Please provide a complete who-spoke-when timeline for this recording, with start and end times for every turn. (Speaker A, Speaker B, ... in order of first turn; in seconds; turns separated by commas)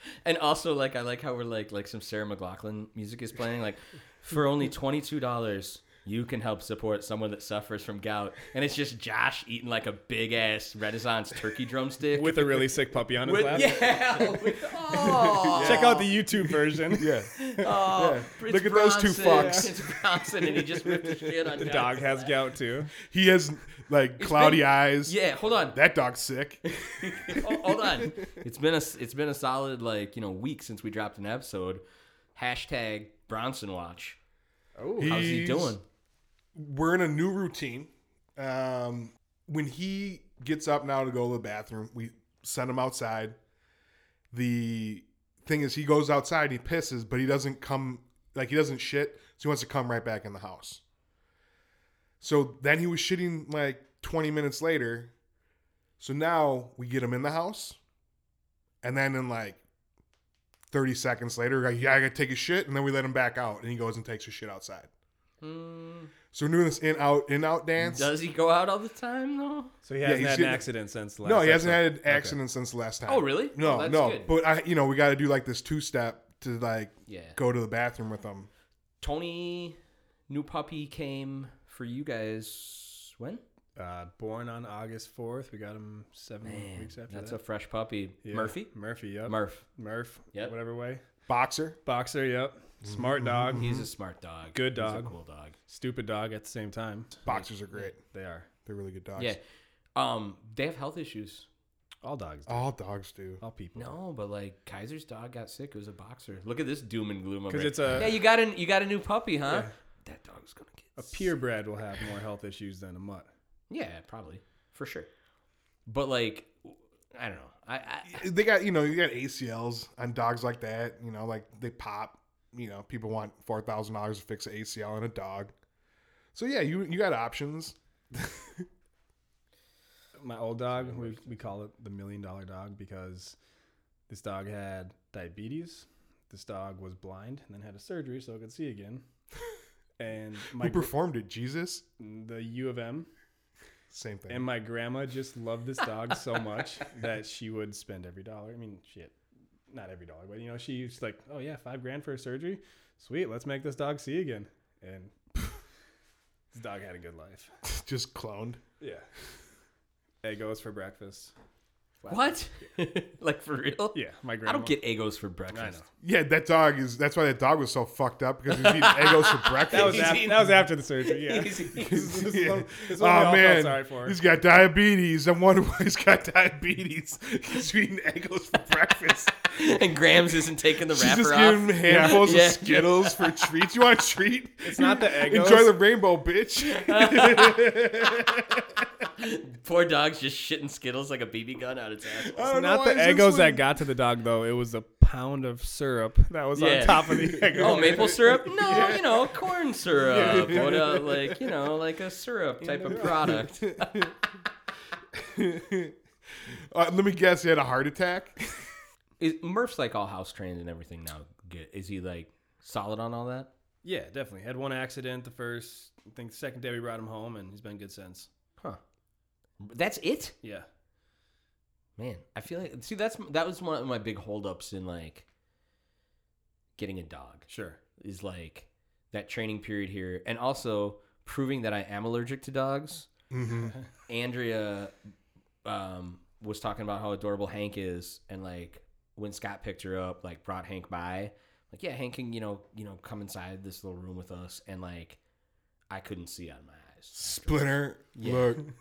Speaker A: 0.2-12.6, Speaker B: 12.2-13.8, Speaker A: 13.2-16.1, Speaker C: 14.9-15.9, Speaker B: 15.0-17.6, Speaker C: 16.9-21.6, Speaker A: 17.4-22.3, Speaker B: 19.2-19.7, Speaker B: 21.6-23.0, Speaker C: 23.0-25.2, Speaker A: 24.2-25.8, Speaker C: 25.7-28.2, Speaker A: 26.7-31.8, Speaker A: 32.4-34.2, Speaker B: 34.8-35.2, Speaker C: 35.0-35.8, Speaker A: 35.0-35.8, Speaker C: 36.5-43.4, Speaker C: 44.3-50.8, Speaker C: 52.2-55.1, Speaker C: 56.0-57.8, Speaker C: 58.8-59.6, Speaker C: 60.7-64.9, Speaker A: 65.4-66.1, Speaker C: 66.3-68.1, Speaker A: 67.8-69.7, Speaker B: 69.8-72.4, Speaker C: 70.0-70.7, Speaker C: 71.2-78.5, Speaker A: 73.1-74.3, Speaker A: 77.1-77.4, Speaker A: 79.0-79.8, Speaker A: 80.3-83.4, Speaker B: 83.8-87.4, Speaker A: 86.4-88.7, Speaker B: 88.2-91.0, Speaker A: 89.2-89.6, Speaker C: 91.3-91.8, Speaker B: 91.9-93.8, Speaker C: 92.8-93.9, Speaker A: 93.5-95.6, Speaker B: 94.5-95.1, Speaker B: 95.7-97.3, Speaker C: 97.3-98.0, Speaker A: 97.3-97.9, Speaker B: 98.0-98.5, Speaker C: 98.7-99.4, Speaker A: 100.0-101.5, Speaker B: 102.0-102.7, Speaker C: 102.5-103.4, Speaker B: 103.4-103.9, Speaker A: 103.8-111.3, Speaker B: 107.5-108.2, Speaker B: 111.0-113.3, Speaker A: 113.7-115.1, Speaker A: 115.9-118.3, Speaker C: 118.1-125.5, Speaker C: 126.3-128.7, Speaker B: 130.2-133.4, Speaker A: 130.7-131.4, Speaker B: 134.1-139.0, Speaker B: 140.0-140.9, Speaker C: 140.6-141.8, Speaker B: 142.0-143.1, Speaker C: 143.9-144.5, Speaker B: 144.3-149.2, Speaker B: 149.7-155.1, Speaker B: 156.5-157.5, Speaker C: 157.7-158.6, Speaker B: 158.8-159.1, Speaker B: 160.2-161.3, Speaker A: 162.1-165.8, Speaker B: 163.9-164.8, Speaker B: 165.5-165.8, Speaker C: 166.0-170.2, Speaker A: 168.5-172.0, Speaker B: 169.7-174.2, Speaker C: 171.8-179.5, Speaker A: 179.5-183.4, Speaker C: 180.9-188.9, Speaker B: 181.9-182.2, Speaker B: 184.6-185.8, Speaker A: 186.6-188.3, Speaker A: 189.2-192.5, Speaker C: 192.2-193.7, Speaker B: 192.5-198.2, Speaker A: 196.6-204.2, Speaker C: 197.2-201.6, Speaker C: 202.6-204.1, Speaker C: 205.1-208.7, Speaker A: 209.2-213.5, Speaker B: 213.8-218.3, Speaker A: 219.6-220.4, Speaker A: 222.0-225.3, Speaker A: 226.8-227.5, Speaker B: 227.5-227.8, Speaker A: 228.0-233.1, Speaker C: 233.3-233.8, Speaker A: 234.1-234.9, Speaker A: 235.7-245.2, Speaker A: 245.9-247.6, Speaker C: 247.2-248.6, Speaker A: 248.2-248.6